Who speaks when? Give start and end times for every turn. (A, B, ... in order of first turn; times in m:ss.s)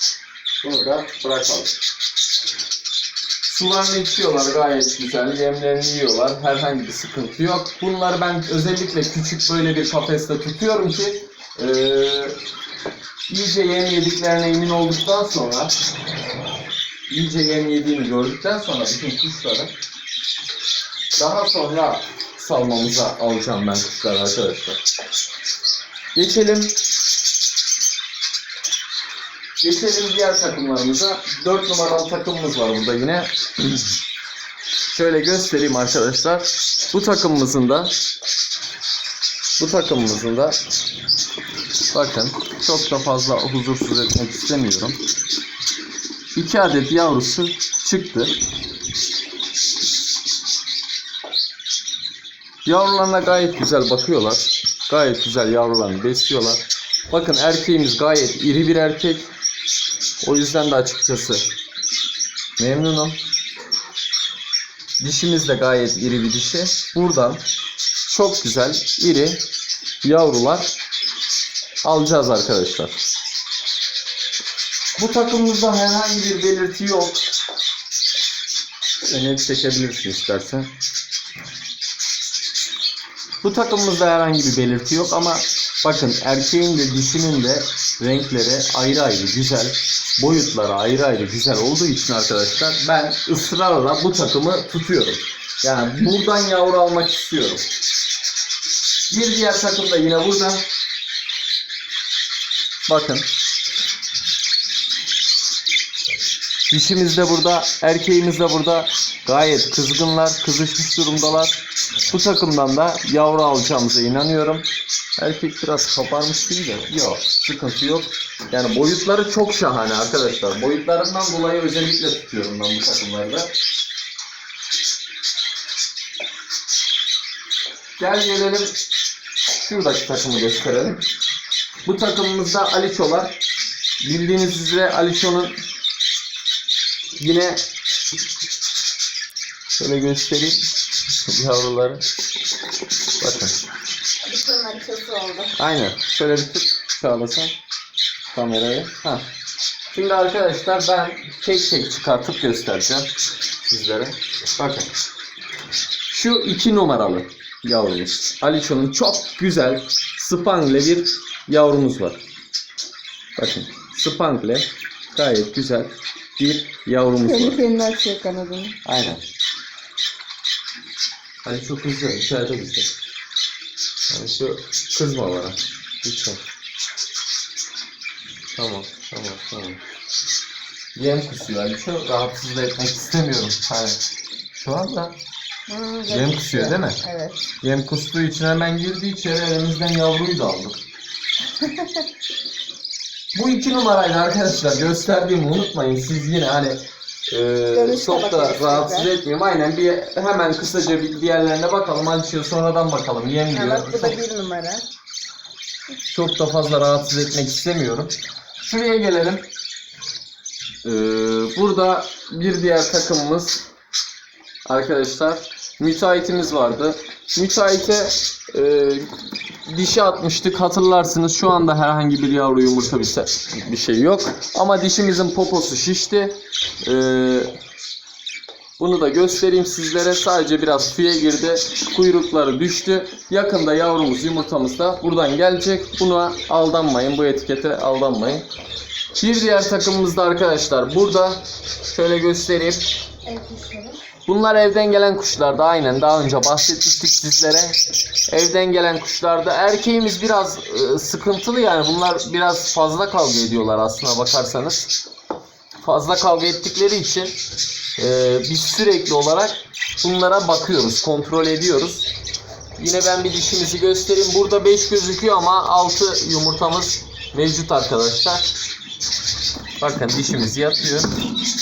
0:00.6-0:01.8 A
0:03.4-0:12.4 A
0:13.3-0:15.7 A
0:17.1-0:19.7 A
0:21.2-0:24.8 A
0:26.1-0:26.8 A
0:29.6-0:33.8 A
0:34.8-0:37.9 A
0:39.6-0:40.6 A
0:41.9-0:45.0 A
0:46.3-0:48.3 A
0:52.6-0:59.3 A
1:00.2-1:01.5 A
1:02.6-1:03.2 A
1:05.0-1:07.4 A
1:08.0-1:09.4 A
1:10.0-1:10.7 A
1:11.8-1:13.0 A
1:15.0-1:17.2 A
1:19.0-1:20.7 A
1:23.4-1:37.6 A
1:39.1-1:40.7 A
1:42.9-1:43.3 A
1:46.7-2:03.5 A
2:08.0-2:08.8 A
2:09.5-2:11.0 A
2:11.8-2:13.4 A
2:14.0-2:15.6 A
2:17.2-2:17.6 A
2:19.8-2:20.7 A
2:21.2-2:22.0 A
2:23.2-2:23.5 A
2:24.2-2:25.5 B
2:25.6-2:27.5 A
2:28.3-2:29.3 A
2:29.9-2:33.1 A
2:33.6-2:34.9 A
2:36.1-2:42.2 A
2:43.4-2:47.6 A
2:47.2-2:48.8 B
2:48.8-2:49.2 A
2:51.4-2:52.9 A
2:54.1-2:56.4 A
2:58.6-2:59.8 A
3:00.9-3:04.0 A
3:04.6-3:05.2 A
3:05.7-3:07.4 B
3:06.1-3:07.0 A
3:07.6-3:10.8 A
3:13.3-3:24.2 A
3:17.7-3:19.1 B
3:23.5-3:24.8 B
3:26.1-3:29.4 A
3:30.8-3:33.6 A
3:34.6-3:39.1 A
3:39.6-3:47.5 A
3:48.8-3:58.5 A
3:59.2-4:02.9 A
4:03.2-4:04.0 B
4:04.2-4:07.8 A
4:08.3-4:14.9 A
4:15.8-4:17.4 A
4:18.0-4:22.1 A
4:22.8-4:28.5 A
4:29.8-4:31.1 A